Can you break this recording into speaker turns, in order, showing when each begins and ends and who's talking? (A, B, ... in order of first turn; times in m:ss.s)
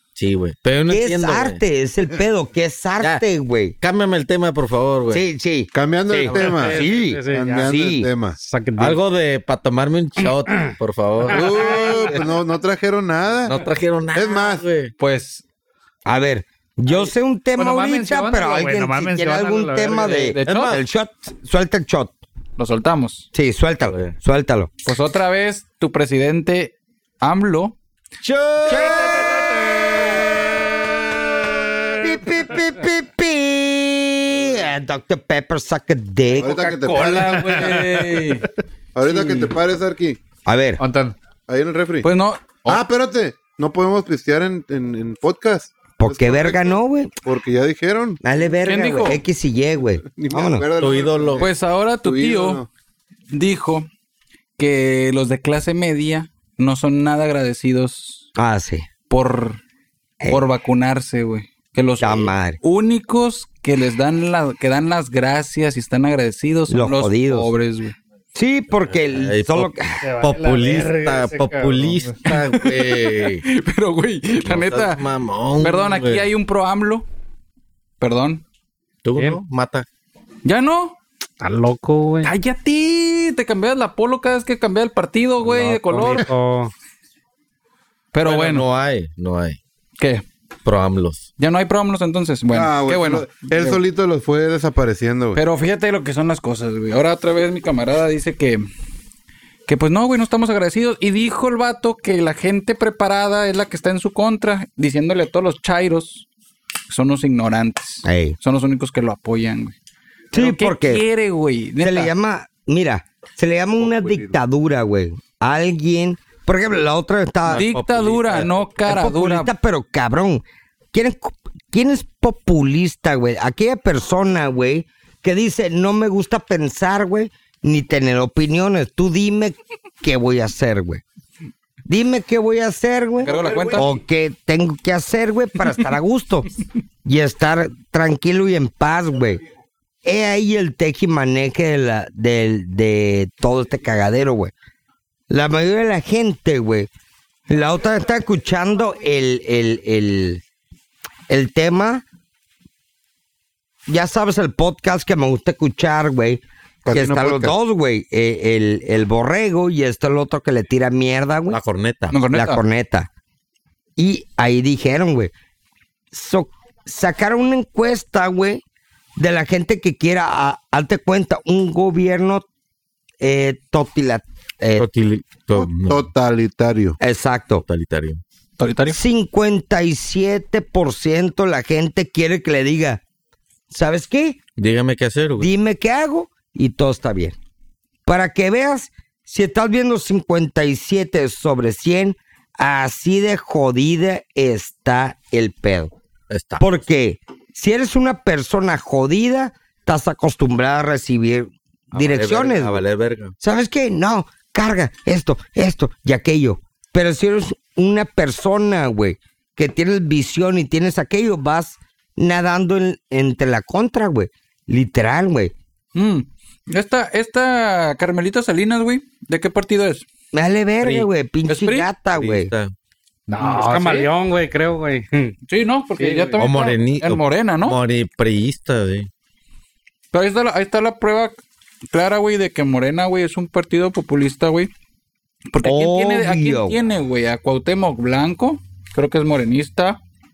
0:00.2-0:01.6 A
0:00.9-0:03.8 B
0:03.8-0:05.2 A
0:05.1-0:08.1 B
0:05.7-0:08.4 C
0:06.3-0:07.6 D
0:08.4-0:09.0 D
0:08.8-0:12.3 A
0:11.3-0:13.6 C
0:13.5-0:14.9 A
0:14.1-0:14.6 C
0:15.0-0:15.4 E
0:16.1-0:22.2 B
0:17.6-0:20.2 F
0:20.0-0:20.8 E
0:20.4-0:20.8 A
0:22.6-0:23.3 E
0:23.3-0:24.7 B
0:23.8-0:24.2 A
0:24.9-0:27.8 E
0:28.2-0:30.7 A
0:28.7-0:29.2 B
0:32.0-0:36.6 B
0:36.3-0:37.8 C
0:36.6-0:38.5 E
0:36.9-0:38.4 F
0:39.0-0:40.2 C
0:39.1-0:39.4 E
0:40.5-0:40.8 B
0:40.8-0:41.2 F
0:41.5-0:42.1 C
0:42.0-0:42.8 E
0:42.6-0:48.2 C
0:46.0-0:47.1 B
0:48.2-0:50.7 B
0:48.6-0:49.2 E
0:50.2-0:52.7 C
0:50.8-0:51.5 A
0:51.4-0:52.6 E
0:53.3-0:53.9 E
0:54.6-0:58.3 E
0:58.4-0:58.9 B
0:59.1-0:59.6 E
1:00.3-1:08.0 E
1:02.0-1:02.6 B
1:06.7-1:07.5 B
1:08.4-1:10.0 B
1:08.8-1:13.4 A
1:10.0-1:12.2 F
1:12.2-1:15.0 E
1:14.4-1:16.3 A
1:15.6-1:17.1 E
1:18.0-1:18.4 E
1:19.0-1:19.9 A
1:20.4-1:21.0 E
1:21.4-1:22.3 D
1:22.2-1:26.3 E
1:25.4-1:26.7 D
1:28.1-1:28.6 E
1:28.2-1:29.6 A
1:30.0-1:30.2 E
1:30.6-1:31.3 A
1:31.4-1:33.8 E
1:32.5-1:35.4 C
1:35.4-1:38.7 E
1:39.7-1:46.3 E
1:46.9-1:49.8 E
1:48.0-1:48.4 B
1:50.3-1:51.0 B
1:50.3-1:52.1 E
1:51.8-1:57.7 B
1:53.8-1:54.4 C
1:57.5-1:58.7 A
1:57.5-1:59.5 E
1:58.9-2:11.0 B
2:11.9-2:16.5 B
2:13.2-2:14.0 E
2:17.0-2:19.4 B
2:20.0-2:24.5 B
2:25.3-2:26.9 B
2:27.5-2:30.4 B
2:31.3-2:32.0 B
2:33.9-2:41.6 B
2:36.9-2:37.6 C
2:41.5-2:42.2 A
2:42.1-2:42.6 E
2:42.3-2:43.1 B
2:44.0-2:45.3 B
2:46.1-2:48.6 B
2:49.2-2:52.4 B
2:53.2-2:54.9 B
2:54.8-2:56.1 A
2:55.6-2:57.0 C
2:57.0-2:57.6 B
2:57.7-2:58.2 A
2:58.6-2:59.0 E
2:58.9-3:03.0 B
3:03.7-3:04.4 B
3:04.6-3:05.5 A
3:05.4-3:07.4 B
3:08.1-3:15.9 B
3:16.3-3:16.7 A
3:16.6-3:22.8 B
3:21.9-3:23.3 A
3:23.4-3:35.5 B
3:36.0-3:40.1 E
3:40.3-3:42.5 B
3:40.8-3:41.1 A
3:41.5-3:41.9 E
3:42.1-3:42.7 A
3:43.3-3:44.1 F
3:43.4-3:45.3 D
3:45.5-3:47.8 E
3:46.0-3:46.5 D
3:46.4-3:49.1 A
3:50.1-3:51.4 E
3:51.9-3:54.7 E
3:55.5-4:00.0 E
3:55.6-3:56.8 B